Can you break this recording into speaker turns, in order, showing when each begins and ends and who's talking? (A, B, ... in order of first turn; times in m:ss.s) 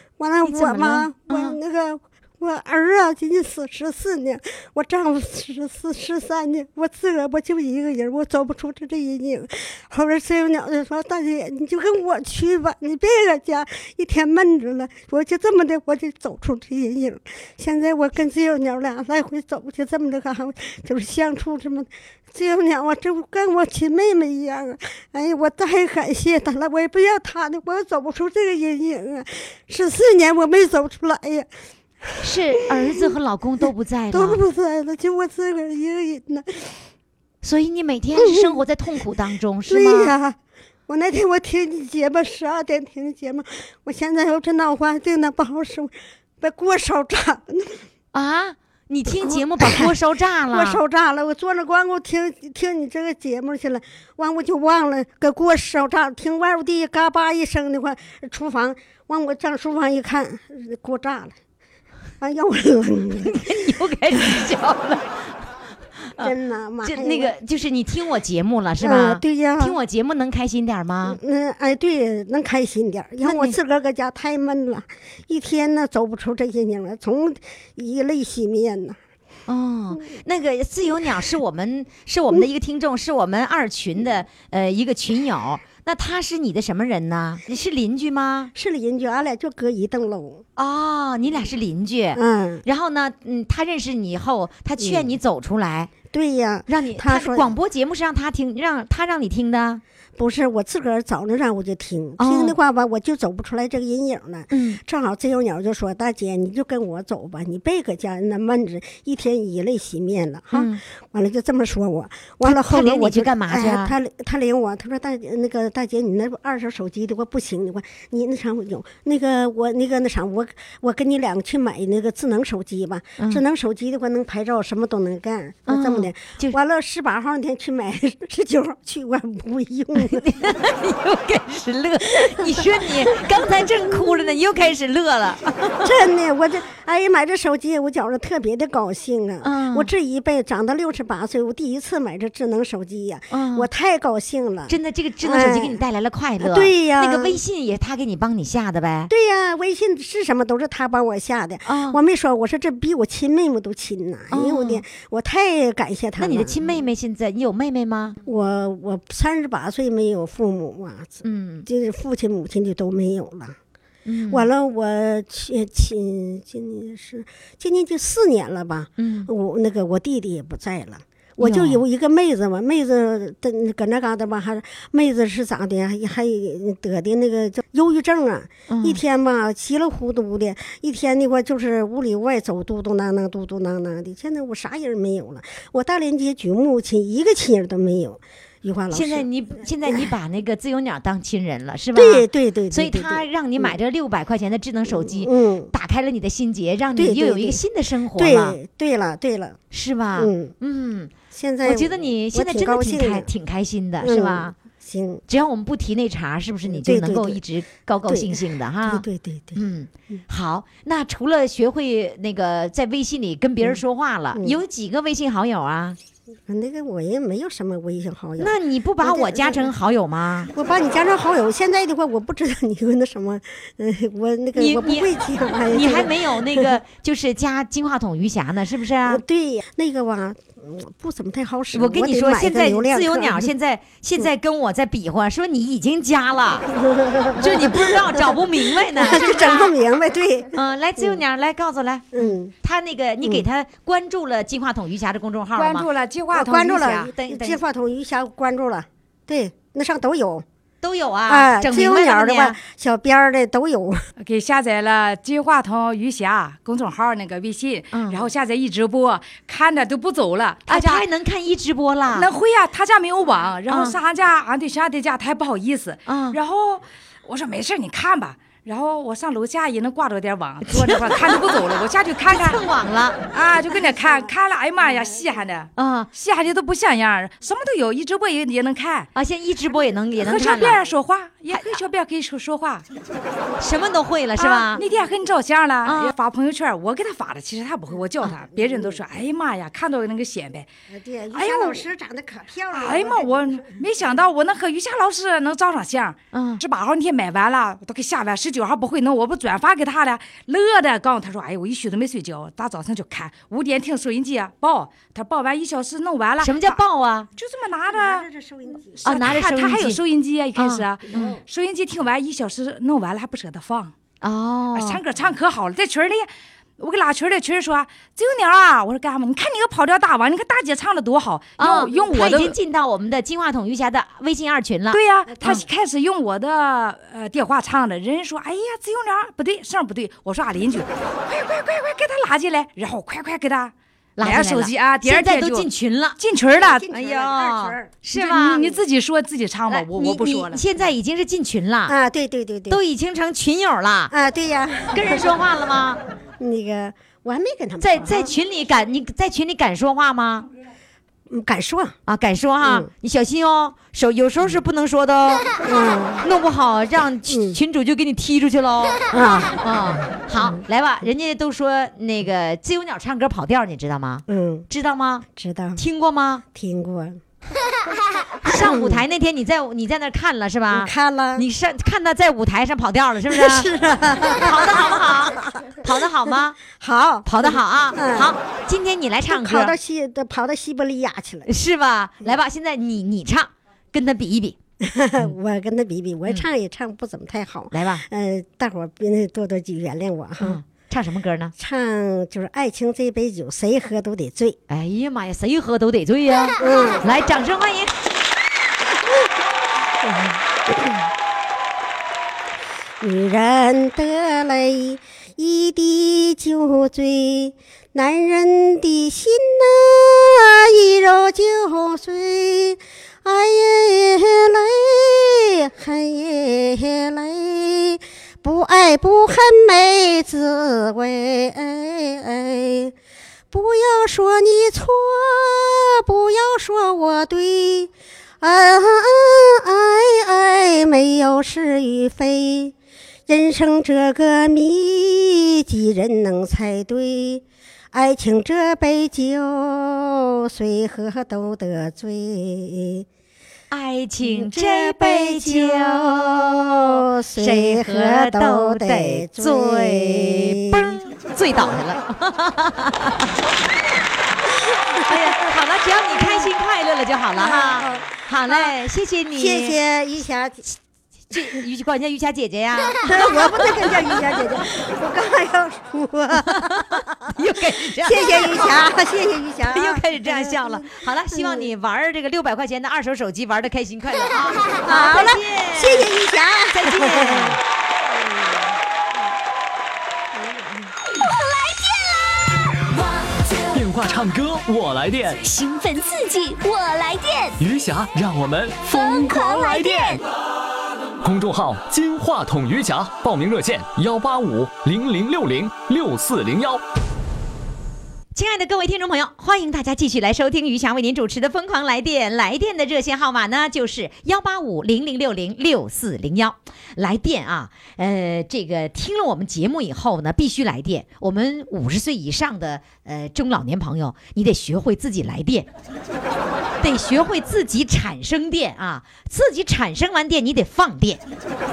0:00.2-0:31.5 A
0:00.5-0:01.6 B
0:32.2-0:34.4 B
0:34.1-0:36.8 A
0:37.4-0:40.1 B
0:38.2-0:38.6 A
0:39.7-0:40.4 A
0:40.9-0:47.8 A
0:48.1-0:50.8 B
0:49.1-0:49.9 A
0:50.5-1:01.4 A
1:02.2-1:03.5 A
1:03.3-1:05.1 B
1:06.2-1:07.3 A
1:06.8-1:11.2 B
1:08.8-1:09.8 A
1:11.1-1:19.0 A
1:13.2-1:13.6 B
1:19.5-1:28.5 B
1:28.6-1:30.4 A
1:30.6-1:35.9 B
1:32.2-1:32.6 A
1:34.8-1:35.1 A
1:36.1-1:37.5 A
1:36.7-1:39.8 B
1:40.2-2:10.3 A
1:42.2-1:42.6 B
1:44.5-1:44.8 B
1:50.5-1:50.8 B
1:52.4-1:53.9 B
2:05.7-2:06.6 B
2:10.0-2:15.9 B
2:12.1-2:14.2 A
2:15.8-2:25.8 A
2:19.4-2:19.9 B
2:23.3-2:23.7 B
2:24.7-2:29.1 B
2:26.4-2:27.4 A
2:29.1-2:36.7 A
2:31.7-2:32.0 B
2:34.3-2:34.8 B
2:36.2-2:38.2 B
2:38.2-2:43.6 A
2:41.2-2:41.7 B
2:44.1-2:44.5 B
2:44.3-3:09.3 A
2:49.0-2:49.3 B
2:51.4-2:51.8 B
2:58.7-2:59.0 B
3:08.9-3:18.6 B
3:11.9-3:13.8 A
3:14.9-3:15.7 A
3:17.0-3:17.6 A
3:18.2-3:19.6 A
3:19.7-3:24.6 B
3:20.2-3:20.5 A
3:21.3-3:23.3 A
3:24.0-3:25.2 A
3:25.3-3:29.0 B
3:26.7-3:27.4 A
3:28.1-3:30.2 A
3:29.6-3:36.0 B
3:36.5-3:39.7 A
3:38.4-3:40.5 B
3:40.5-3:46.8 A
3:44.6-3:45.1 B
3:45.7-3:49.2 B
3:49.1-3:53.5 A
3:51.7-3:56.7 B
3:56.7-4:01.2 A
3:57.4-3:59.7 B
4:00.5-4:05.9 B
4:02.1-4:02.5 A
4:05.6-4:06.8 C
4:06.3-4:10.4 A
4:06.7-4:07.6 B
4:10.8-4:12.6 B
4:11.3-4:14.0 A
4:14.2-4:21.0 C
4:17.9-4:18.3 B
4:20.7-4:22.3 B
4:22.2-4:32.6 C
4:23.7-4:24.0 B
4:26.1-4:26.4 B
4:30.7-4:31.4 B
4:32.3-4:33.2 B
4:33.3-4:39.1 C
4:33.7-4:35.4 A
4:35.8-4:36.1 B
4:39.2-4:40.8 B
4:40.2-4:42.8 C
4:41.5-4:41.8 B
4:43.6-4:44.8 B
4:44.4-4:50.7 C
4:45.8-4:46.1 B
4:48.5-4:49.0 A
4:50.9-4:53.9 A
4:51.3-4:51.8 C
4:52.7-5:06.8 C
4:56.3-4:56.6 B
5:06.4-5:07.3 B
5:07.4-5:08.3 C
5:07.9-5:09.0 A
5:09.0-5:13.9 C
5:09.0-5:10.0 B
5:10.6-5:11.3 B
5:11.1-5:11.4 A
5:14.2-5:15.0 B
5:14.7-5:22.6 C
5:21.6-5:25.6 B
5:24.9-5:36.9 C
5:34.2-5:36.2 B
5:36.4-5:38.0 A
5:36.9-5:38.6 B
5:38.1-5:40.6 C
5:39.7-5:42.0 B
5:41.9-5:42.8 A
5:42.7-5:44.1 B
5:44.1-5:45.3 A
5:44.9-5:46.0 B
5:46.4-5:48.3 A
5:47.8-5:50.5 B
5:51.3-5:52.0 A
5:52.1-5:55.5 B
5:52.6-5:52.9 A
5:55.6-5:56.2 A
5:56.2-5:59.0 B
5:57.3-5:57.6 A
5:59.1-5:59.6 A
5:59.6-6:05.2 B
6:00.4-6:00.6 A
6:04.3-6:04.7 A
6:05.3-6:05.8 A
6:05.8-6:06.4 B
6:06.5-6:07.2 A
6:08.4-6:09.0 A
6:08.4-6:13.7 B
6:10.7-6:11.4 A
6:13.3-6:15.5 A
6:14.3-6:16.6 B
6:16.7-6:18.3 A
6:17.2-6:19.7 B
6:19.3-6:21.5 A
6:21.5-6:24.6 B
6:24.8-6:30.6 A
6:27.7-6:28.0 B
6:30.4-6:31.5 B
6:31.6-6:34.6 A
6:34.7-6:37.9 B
6:36.6-6:37.0 A
6:40.0-6:41.0 A
6:43.0-7:02.9 A
7:03.5-7:12.7 A
7:13.3-7:23.1 A
7:23.7-7:33.3 B
7:24.2-7:31.0 A
7:34.6-7:35.3 A
7:35.0-7:39.8 B
7:36.1-7:36.5 A
7:37.4-7:38.8 A
7:39.4-7:40.6 A
7:41.3-7:44.4 B
7:43.0-7:47.0 A
7:46.4-7:48.7 B
7:48.0-7:51.7 A
7:49.7-7:56.1 B
7:54.8-7:58.8 A
7:56.7-7:57.6 B
8:00.3-8:00.9 A
8:01.2-8:03.7 D
8:03.7-8:05.4 E
8:05.4-8:07.6 D
8:07.6-8:10.2 E
8:08.9-8:10.2 D
8:11.2-8:16.8 E
8:18.4-8:35.7 B
8:36.8-8:41.2 B